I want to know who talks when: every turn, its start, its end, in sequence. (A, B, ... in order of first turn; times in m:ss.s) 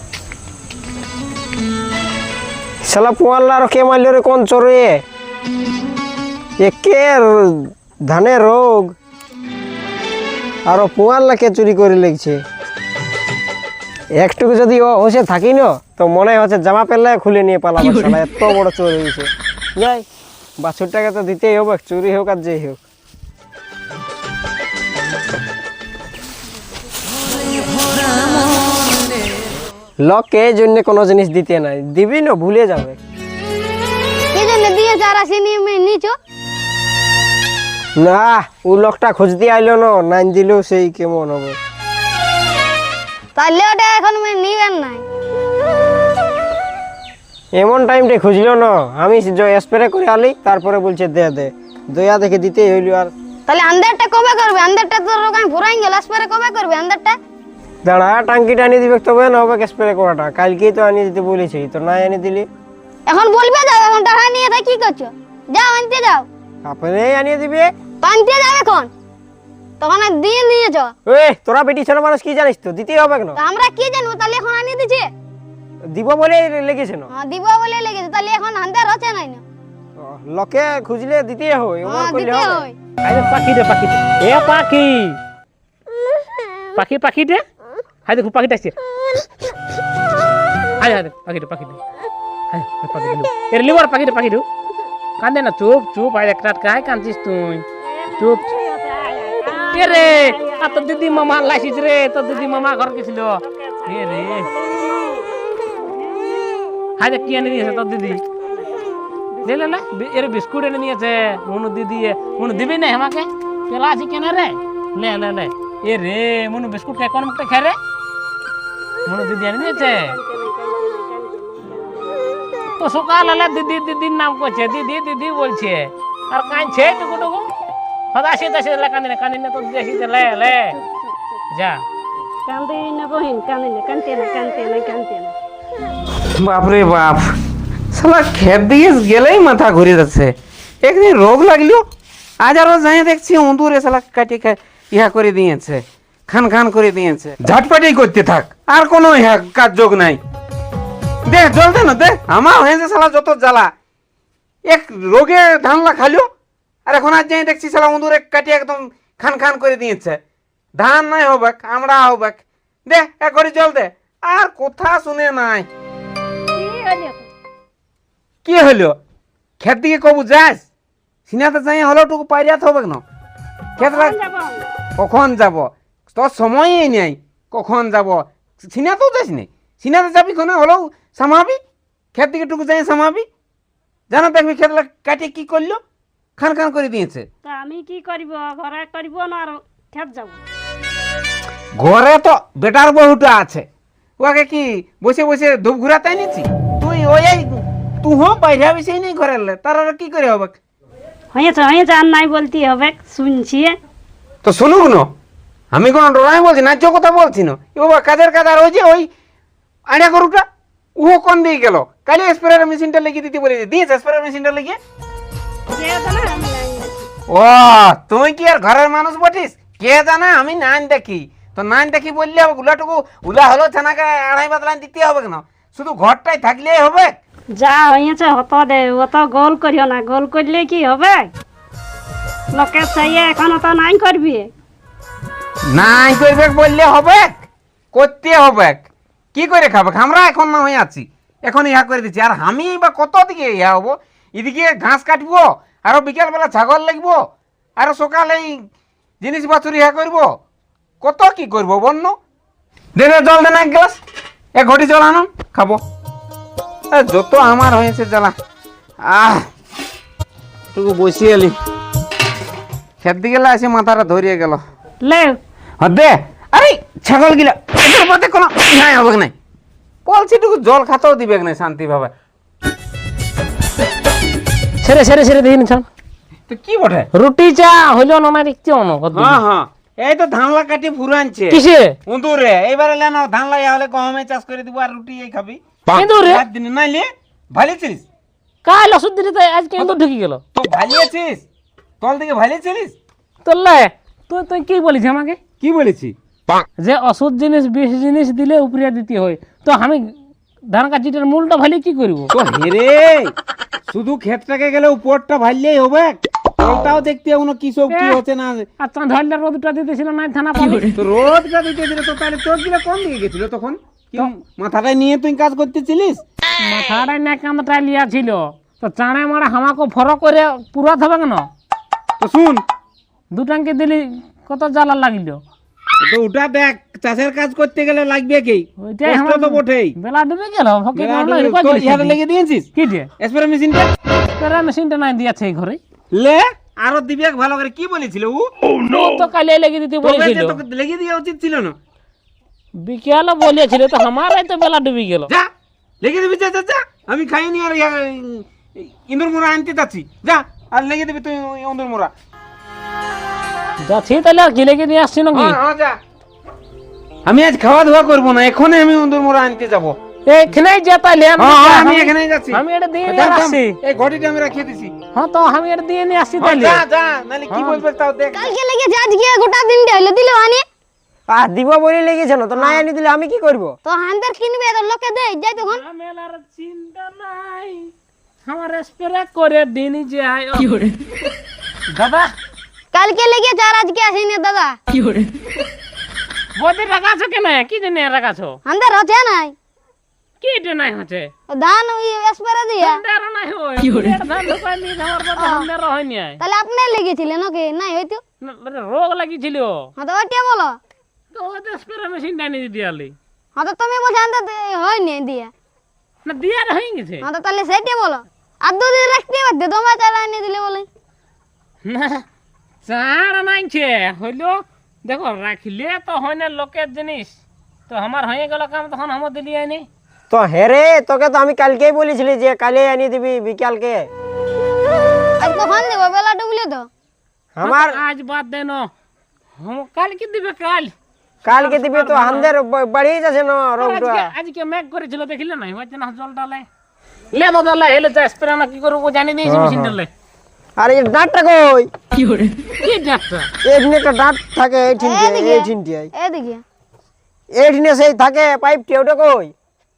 0:02.8-0:05.0 A
0:06.6-0:09.0 A
0:10.7-0:12.4 A
0:14.2-0:20.0 A
0:20.6-0:22.8 A
0:30.0-0:33.0 A
0:34.3-0:36.1 B
0:38.0-0:41.6 A
0:43.4-0:45.0 B
0:47.6-0:53.1 A
0:53.5-0:57.2 B
0:57.8-1:02.5 A
1:03.1-1:06.3 B
1:06.6-1:07.7 A
1:08.0-1:08.9 B
1:09.8-1:10.9 B
1:11.0-1:13.4 A
1:13.4-1:15.1 B
1:15.9-1:17.1 A
1:17.1-1:19.4 B
1:20.0-1:22.6 A
1:21.8-1:22.8 B
1:23.0-1:25.2 C
1:26.8-1:27.4 C
1:28.0-1:28.7 C
1:30.8-1:31.8 C
1:32.5-1:34.4 C
1:35.2-1:37.6 C
1:37.8-1:41.7 D
1:38.2-1:38.4 C
1:39.7-1:44.5 C
1:42.3-1:46.6 D
1:47.0-1:48.2 C
1:47.1-1:49.8 D
1:49.4-1:57.8 C
1:52.3-1:52.8 D
1:59.0-2:00.1 C
1:59.6-2:02.2 D
2:02.8-2:07.4 C
2:08.1-2:10.7 C
2:10.2-2:11.1 D
2:11.5-2:11.8 C
2:12.5-2:15.3 D
2:16.3-2:17.4 E
2:17.9-2:21.8 E
2:22.4-2:30.2 E
2:31.2-2:33.7 E
2:34.6-2:36.3 E
2:36.9-2:40.2 E
2:40.8-2:45.7 E
2:46.5-2:47.3 D
2:48.4-2:49.0 E
2:49.6-2:50.6 E
2:51.3-2:53.0 E
2:53.8-2:54.2 E
2:53.8-2:54.7 D
2:55.0-3:01.6 E
3:02.1-3:03.3 E
3:04.1-3:05.8 E
3:06.4-3:07.3 E
3:07.4-3:10.4 D
3:11.8-3:13.6 E
3:14.2-3:20.5 E
3:21.3-3:23.8 D
3:24.4-3:25.1 E
3:25.7-3:29.1 E
3:29.9-3:30.4 E
3:31.0-3:34.8 E
3:35.7-3:37.0 D
3:37.3-3:47.2 E
3:47.5-3:51.3 D
3:52.5-3:54.5 D
3:55.7-3:57.4 E
3:57.9-4:07.2 E
4:07.8-4:08.6 E
4:09.2-4:10.3 E
4:11.0-4:12.2 E
4:13.0-4:14.0 E
4:14.6-4:15.8 E
4:16.9-4:18.3 E
4:19.0-4:19.5 E
4:20.7-4:21.5 E
4:23.0-4:24.6 E
4:25.0-4:25.4 C
4:25.8-4:29.3 E
4:30.0-4:32.1 E
4:34.8-4:35.8 C
4:36.5-4:37.1 E
4:37.1-4:39.4 C
4:39.1-4:48.0 E
4:41.5-4:42.0 C
4:45.9-4:46.4 C
4:48.6-4:50.4 C
4:50.5-4:51.4 E
4:52.0-4:52.9 E
4:53.4-4:55.4 C
4:55.6-4:56.6 E
4:56.8-5:00.1 C
5:00.7-5:02.3 C
5:02.3-5:03.3 E
5:03.9-5:08.7 E
5:07.9-5:08.2 C
5:08.8-5:10.9 C
5:10.9-5:16.2 E
5:16.6-5:21.5 C
5:22.2-5:22.6 E
5:23.3-5:25.4 C
5:26.0-5:30.0 E
5:28.8-5:32.2 C
5:30.9-5:33.9 E
5:32.7-5:33.1 C
5:34.3-5:35.8 C
5:36.1-5:38.5 E
5:38.9-5:40.6 C
5:40.0-5:41.8 E
5:42.8-5:45.3 C
5:46.0-5:52.1 E
5:53.8-5:55.6 C
5:55.3-5:56.0 E
5:57.2-6:00.0 E
6:00.3-6:03.8 C
6:01.4-6:04.9 E
6:05.1-6:06.8 C
6:06.4-6:08.5 E
6:07.5-6:07.8 C
6:08.3-6:10.6 B
6:11.3-6:13.8 A
6:13.8-6:15.8 B
6:15.6-6:17.9 C
6:18.4-6:20.9 C
6:21.9-6:22.3 C
6:22.9-6:24.8 B
6:26.6-6:28.6 C
6:28.6-6:29.5 B
6:30.4-6:31.3 C
6:31.5-6:33.0 B
6:32.8-6:36.4 C
6:35.4-6:35.7 B
6:36.4-6:38.2 B
6:38.4-6:39.9 C
6:40.0-6:40.8 B
6:41.3-6:43.2 C
6:43.6-6:45.5 B
6:46.2-6:47.2 C
6:47.2-6:50.9 B
6:51.8-6:52.2 C
6:52.8-6:59.9 C
7:00.3-7:04.1 A
7:05.4-7:06.9 B
7:07.5-7:08.0 A
7:07.6-7:08.9 C
7:09.6-7:10.9 C
7:11.4-7:14.3 A
7:11.5-7:12.5 C
7:13.8-7:16.7 C
7:17.3-7:20.1 C
7:19.4-7:19.9 A
7:20.8-7:21.9 A
7:22.8-7:23.5 C
7:23.6-7:26.1 A
7:25.0-7:26.6 B
7:27.5-7:29.5 A